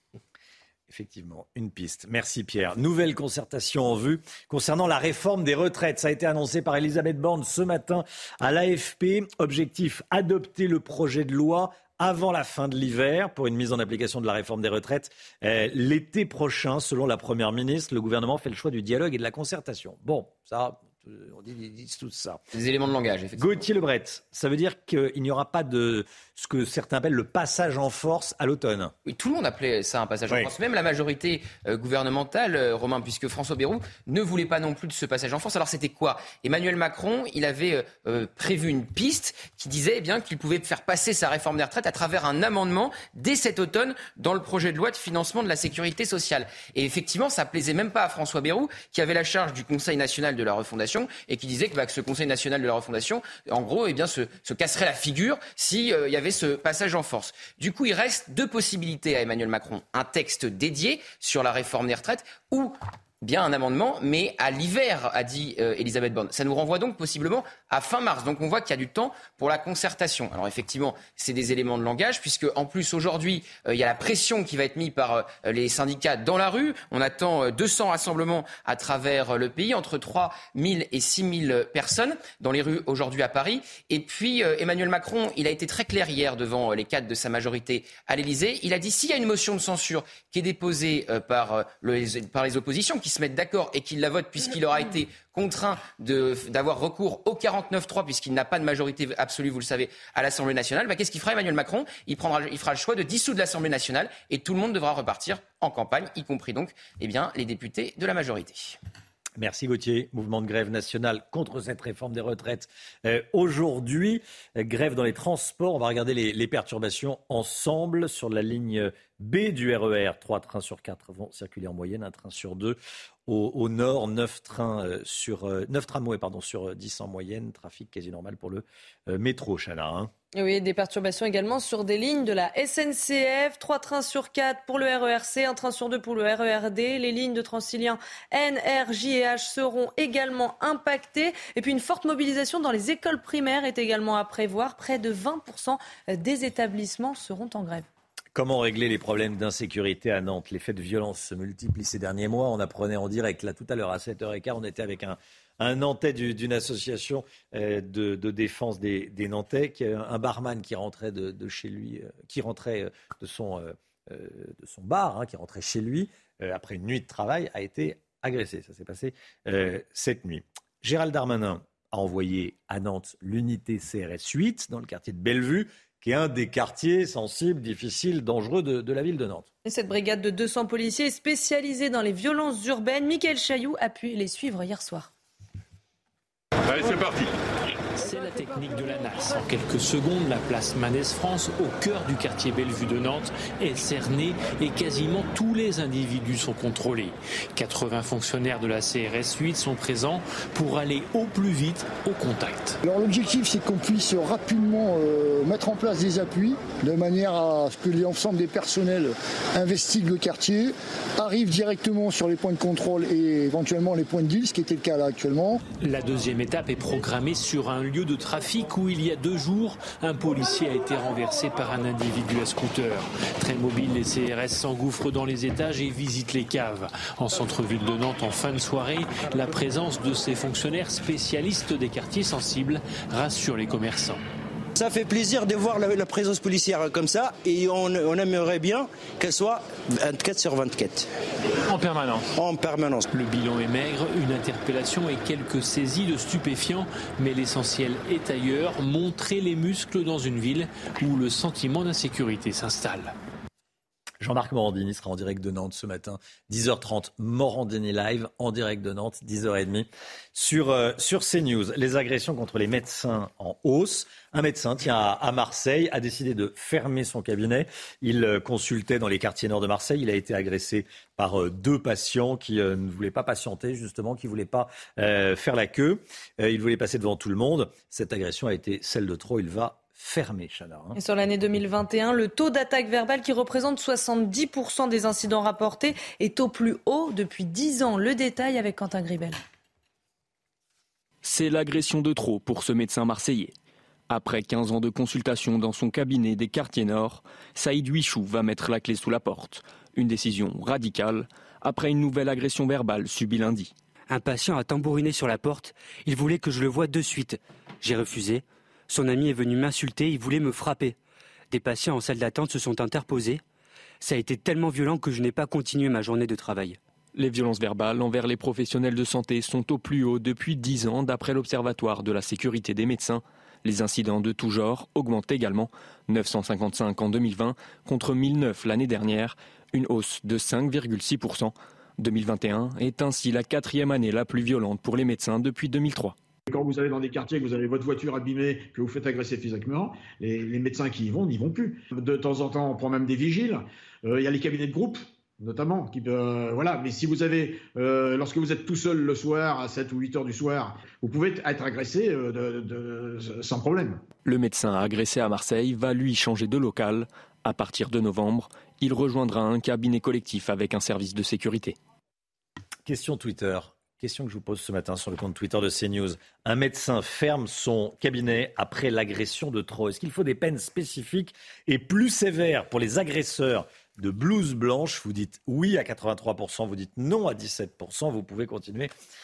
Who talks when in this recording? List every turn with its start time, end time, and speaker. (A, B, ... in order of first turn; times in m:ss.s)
0:00.9-0:22.4 A
0:22.5-0:23.7 B
0:23.4-0:28.9 A
0:29.0-1:48.8 B
1:49.4-2:10.1 A
2:10.3-2:27.9 C
2:28.4-2:59.5 A
2:59.6-3:05.1 C
3:06.7-3:07.3 D
3:07.9-3:22.8 D
3:22.8-3:35.7 E
3:35.8-3:54.2 D
3:54.8-4:01.1 F
4:01.7-4:02.2 D
4:02.3-4:03.0 F
4:03.1-4:13.2 D
4:14.2-4:41.0 A
4:41.0-4:49.4 C
4:51.5-4:52.8 G
4:54.1-4:55.0 G
4:55.5-4:59.5 G
5:00.1-5:03.7 G
5:04.1-5:06.9 H
5:04.7-5:05.1 G
5:06.5-5:07.4 G
5:09.0-5:09.7 H
5:09.0-5:09.2 G
5:09.8-5:10.5 G
5:10.3-5:10.8 H
5:11.6-5:12.8 H
5:12.0-5:12.4 G
5:12.9-5:13.3 G
5:14.1-5:31.4 G
5:15.0-5:15.9 H
5:32.0-5:36.1 G
5:36.5-5:54.0 I
5:54.3-5:57.6 D
5:54.5-5:55.1 G
5:57.9-5:58.4 G
5:58.9-5:59.7 D
6:00.0-6:01.0 G
6:00.3-6:01.4 D
6:02.9-6:18.9 A